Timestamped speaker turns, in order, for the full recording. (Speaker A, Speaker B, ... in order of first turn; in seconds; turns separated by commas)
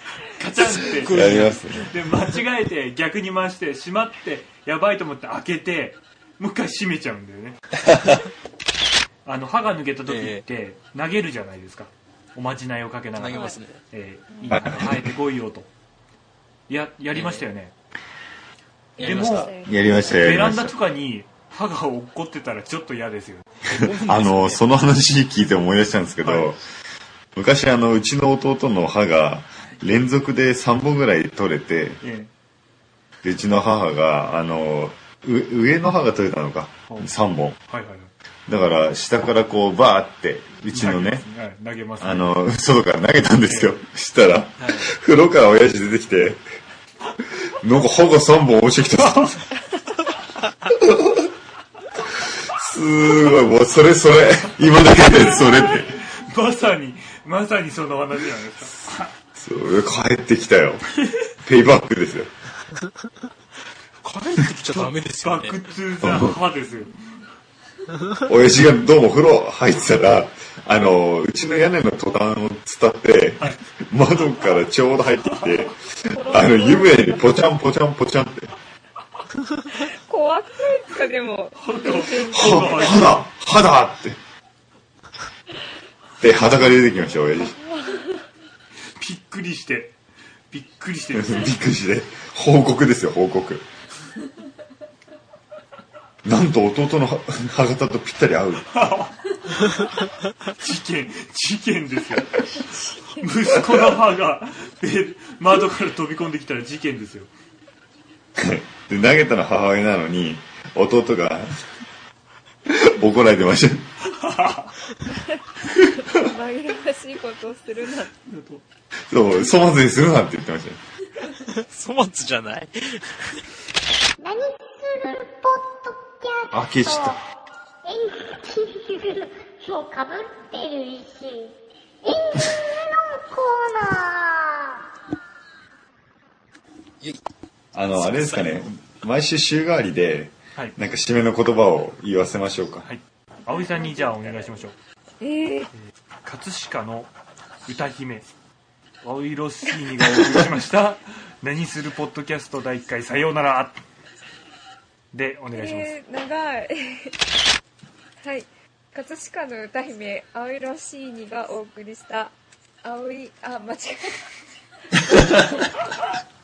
Speaker A: 0.4-7.8, Speaker B: 0.7-1.8, Speaker C: 1.1-1.9, Speaker A: 9.2-15.7, Speaker B: 10.1-10.4, Speaker B: 13.2-13.8, Speaker D: 14.3-14.7, Speaker C: 14.5-15.1, Speaker A: 16.7-17.7, Speaker B: 17.1-17.4, Speaker D: 19.0-20.3, Speaker B: 19.0-19.5, Speaker A: 19.0-19.5, Speaker C: 19.6-20.7, Speaker A: 20.2-23.6, Speaker B: 23.7-24.6, Speaker C: 23.7-26.6, Speaker A: 26.2-26.5, Speaker C: 27.3-32.0, Speaker A: 32.0-32.3, Speaker C: 33.2-37.6, Speaker A: 37.7-38.1, Speaker C: 38.5-41.2, Speaker A: 40.7-42.4, Speaker C: 42.0-46.4, Speaker A: 43.5-43.8, Speaker B: 44.6-44.9, Speaker C: 47.6-49.4, Speaker A: 49.0-49.4, Speaker C: 50.7-51.3, Speaker C: 52.1-56.0, Speaker A: 54.9-59.1, Speaker C: 59.4-60.9, Speaker C: 61.4-62.3, Speaker B: 64.0-65.7, Speaker A: 64.7-66.9, Speaker C: 66.0-66.4, Speaker C: 68.3-78.5, Speaker D: 76.1-77.2, Speaker D: 79.7-83.2, Speaker A: 81.6-83.3, Speaker C: 82.3-84.2, Speaker C: 86.2-87.6, Speaker D: 87.2-88.2, Speaker A: 89.0-90.0, Speaker A: 90.5-91.6, Speaker C: 91.1-93.7, Speaker C: 96.2-98.7, Speaker A: 98.7-99.7, Speaker A: 100.6-102.4, Speaker A: 103.2-107.3, Speaker C: 108.4-111.7, Speaker C: 112.7-113.9, Speaker A: 114.1-114.8, Speaker D: 116.0-118.1, Speaker A: 118.2-118.6, Speaker C: 119.0-120.8, Speaker B: 121.4-123.4, Speaker E: 124.2-127.2, Speaker C: 126.5-127.2, Speaker E: 127.8-134.8, Speaker C: 137.7-142.9, Speaker B: 137.9-138.7, Speaker A: 142.8-144.7, Speaker D: 143.5-144.3, Speaker D: 145.2-145.7, Speaker A: 145.8-147.1, Speaker A: 147.7-148.3, Speaker A: 149.0-153.8, Speaker A: 155.1-155.9, Speaker D: 155.5-157.2, Speaker D: 158.2-164.3